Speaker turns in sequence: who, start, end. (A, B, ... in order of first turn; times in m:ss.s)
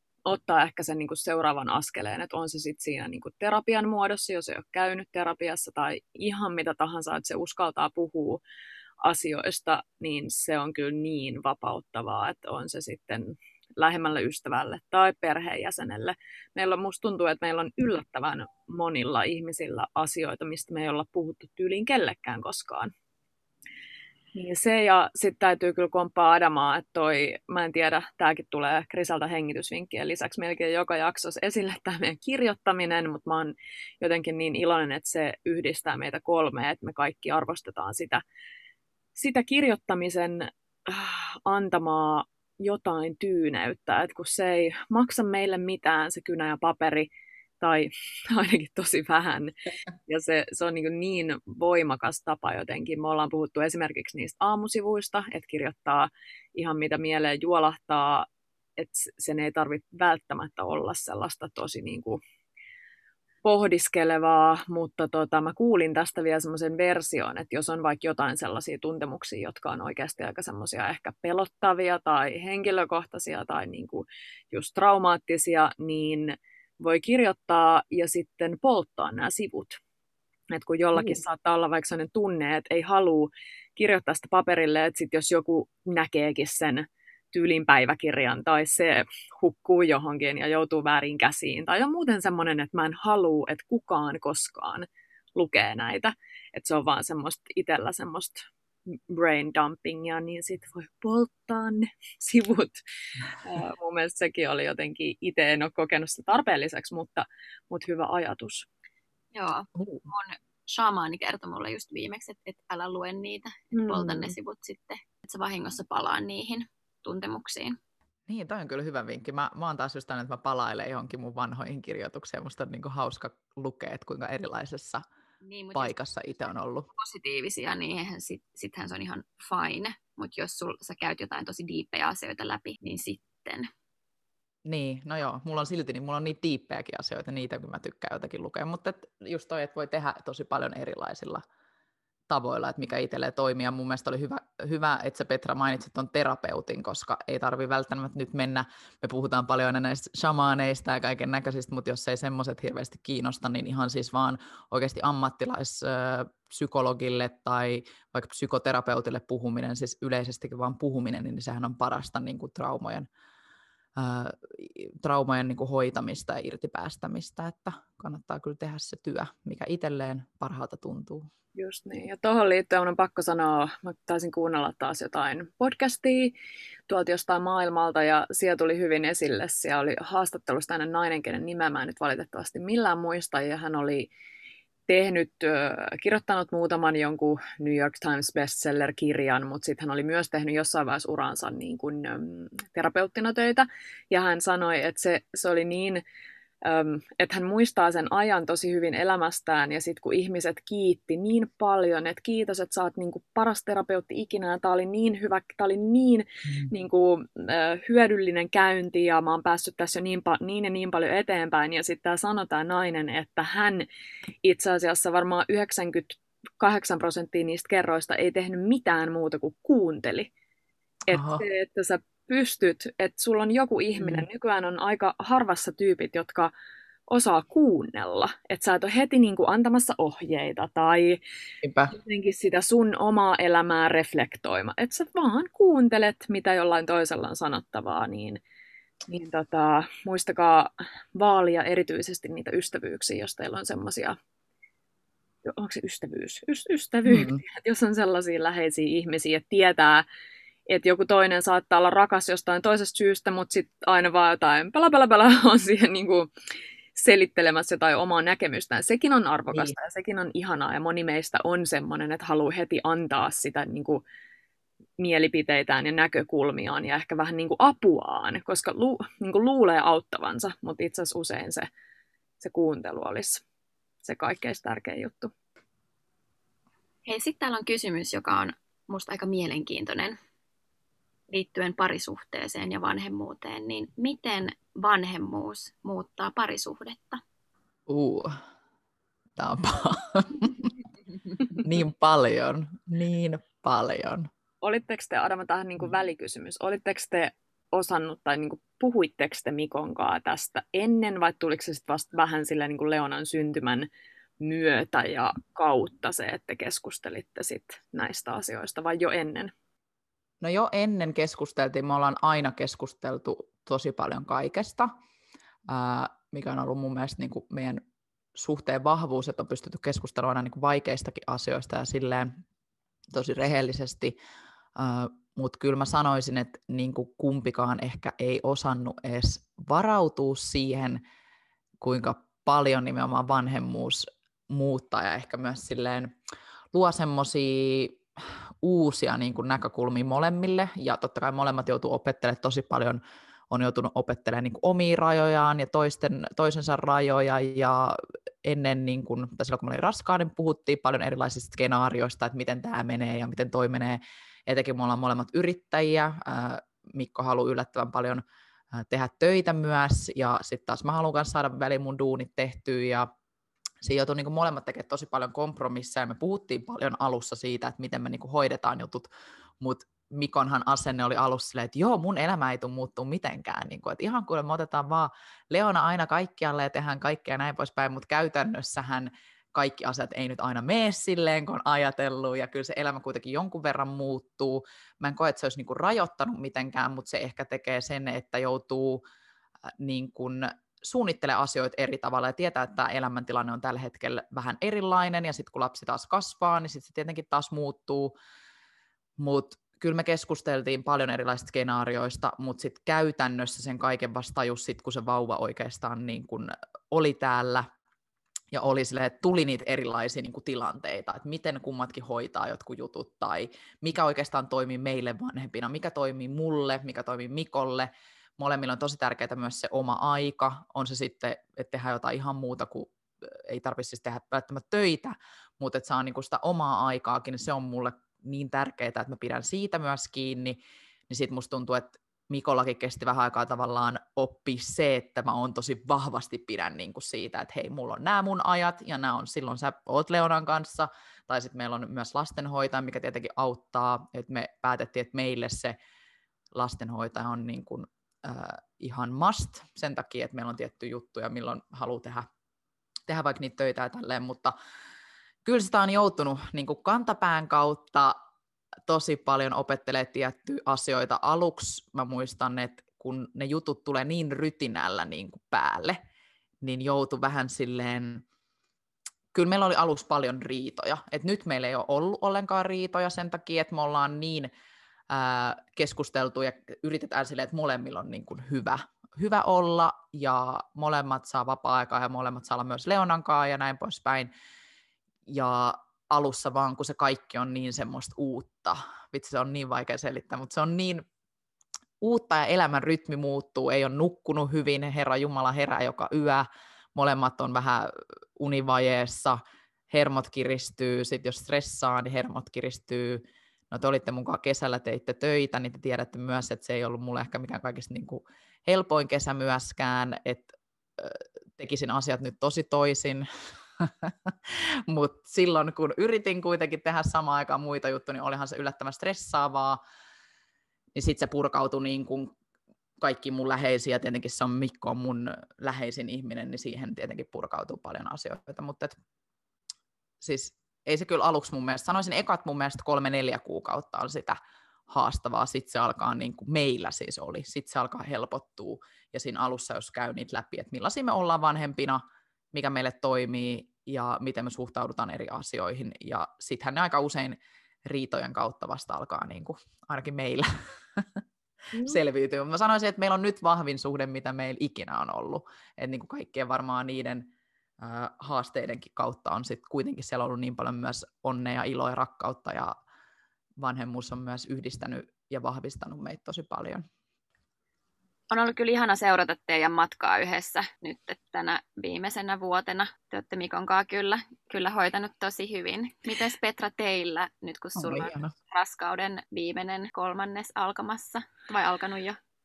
0:00.2-0:08.4 A
0:09.0-0:22.9 A
0:24.3-0:38.2 A
0:39.2-0:47.1 A
0:47.6-0:49.5 A
0:50.1-1:02.2 A
1:03.4-1:19.8 A
1:20.5-1:42.8 A
1:43.4-1:48.6 A
1:49.3-1:57.8 B
1:49.8-1:50.1 C
1:53.7-1:54.3 A
1:58.3-2:05.0 C
2:05.4-2:05.9 B
2:05.7-2:06.9 C
2:06.9-2:13.7 B
2:14.6-2:21.4 C
2:22.3-2:43.1 C
2:44.0-2:51.3 C
2:51.5-2:56.3 A
2:56.9-3:04.1 A
3:04.9-3:16.0 A
3:16.6-3:33.8 A
3:34.4-3:40.3 A
3:41.1-3:46.5 A
3:41.1-3:41.4 C
3:44.0-3:44.2 C
3:47.1-3:51.2 A
3:51.6-3:51.9 C
3:51.9-3:58.4 A
3:59.1-4:04.2 A
4:05.4-4:10.0 A
4:07.0-4:07.4 C
4:10.7-4:16.3 A
4:16.9-4:24.0 A
4:25.0-4:31.7 A
4:32.4-4:33.4 A
4:34.0-4:35.3 A
4:37.0-4:40.2 B
4:41.3-4:47.2 B
4:47.9-4:48.3 C
4:49.4-4:50.7 C
4:51.5-4:54.3 C
4:54.6-5:03.9 A
5:04.4-5:09.5 A
5:10.4-5:14.9 C
5:15.7-5:17.8 C
5:18.3-5:22.4 C
5:23.1-5:24.2 C
5:24.7-5:31.0 C
5:31.8-5:36.1 C
5:36.7-5:38.0 C
5:38.6-5:58.2 C
5:58.7-6:03.1 C
6:03.8-6:09.1 C
6:09.6-6:29.0 C
6:29.8-6:38.1 C
6:39.2-6:47.7 C
6:48.5-7:25.7 C
7:26.5-7:32.3 C
7:33.1-7:34.5 C
7:35.4-7:38.2 C
7:38.9-7:46.0 C
7:46.6-7:48.2 C
7:49.3-7:54.5 C
7:55.1-8:04.3 C
8:05.2-8:11.0 C
8:12.0-8:19.4 C
8:19.9-8:33.2 C
8:33.8-8:39.8 C
8:40.9-8:42.3 C
8:43.0-8:48.9 C
8:50.2-9:02.0 C
9:02.5-9:11.2 C
9:11.8-9:22.7 C
9:23.6-9:26.8 C
9:28.3-9:42.2 B
9:37.8-9:38.3 C